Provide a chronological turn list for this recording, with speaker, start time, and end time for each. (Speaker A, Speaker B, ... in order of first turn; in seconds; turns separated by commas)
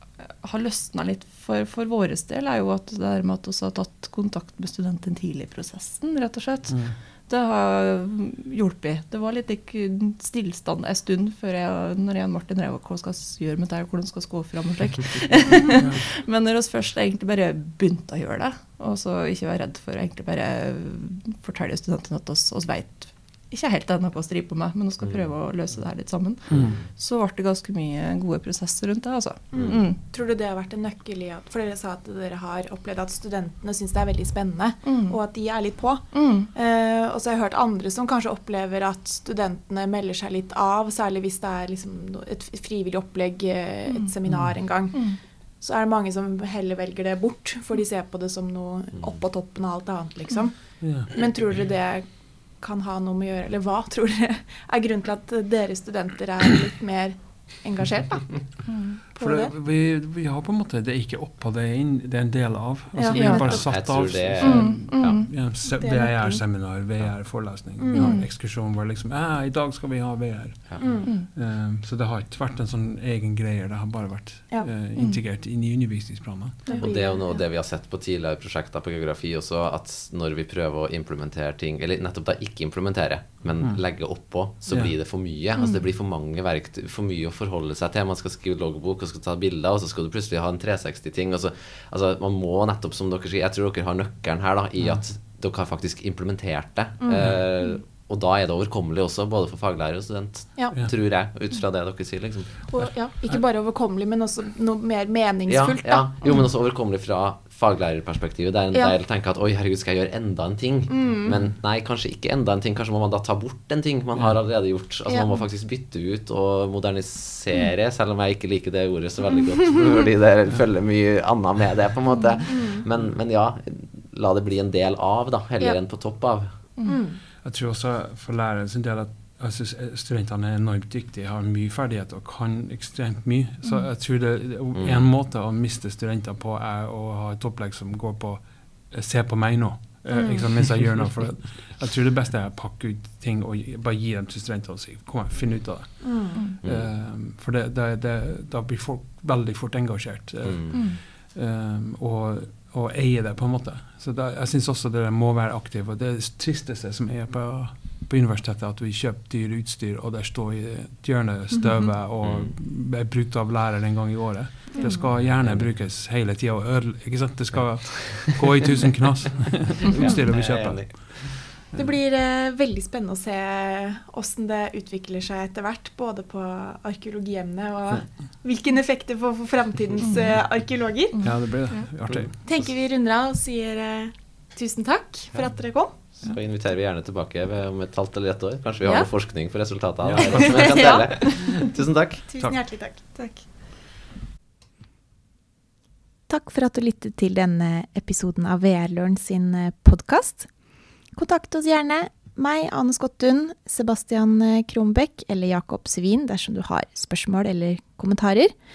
Speaker A: 0.2-30.0, Speaker B: 6.7-7.0, Speaker B: 15.8-16.1, Speaker C: 25.0-25.3, Speaker C: 26.5-26.9, Speaker B: 26.5-26.8, Speaker D: 29.5-59.5, Speaker C: 29.5-29.8, Speaker A: 34.9-35.3, Speaker A: 36.1-36.5, Speaker A: 43.9-45.2, Speaker B: 44.3-44.6, Speaker B: 50.8-51.1, Speaker A: 58.7-59.0, Speaker B: 59.1-76.9, Speaker D: 62.9-63.8, Speaker A: 63.1-63.6, Speaker C: 63.4-65.2, Speaker A: 64.4-65.3, Speaker D: 65.6-66.4, Speaker D: 67.8-68.2, Speaker A: 67.9-68.3, Speaker D: 70.8-71.1, Speaker A: 75.0-75.2, Speaker D: 76.7-77.4, Speaker C: 76.8-102.8, Speaker B: 83.6-85.0, Speaker D: 97.0-97.8, Speaker D: 102.7-106.5, Speaker B: 102.8-103.4, Speaker C: 105.5-126.8, Speaker D: 110.9-111.4, Speaker D: 115.1-115.5, Speaker D: 122.5-122.8, Speaker D: 126.8-127.2, Speaker B: 127.4-171.9, Speaker C: 134.8-135.0, Speaker D: 140.1-140.5, Speaker D: 146.0-146.4, Speaker C: 146.6-146.9, Speaker C: 150.4-150.9, Speaker A: 150.7-151.0, Speaker C: 162.2-162.6, Speaker D: 164.7-165.1, Speaker A: 164.8-165.1, Speaker C: 165.2-165.8, Speaker C: 167.5-168.4, Speaker C: 169.9-171.6, Speaker D: 171.7-181.9, Speaker A: 180.0-180.4, Speaker B: 181.2-182.4, Speaker D: 182.4-186.2, Speaker C: 185.3-192.2, Speaker D: 188.8-189.1, Speaker B: 190.0-191.3, Speaker D: 190.2-191.7, Speaker D: 192.2-193.6, Speaker B: 192.4-192.6, Speaker D: 196.3-208.6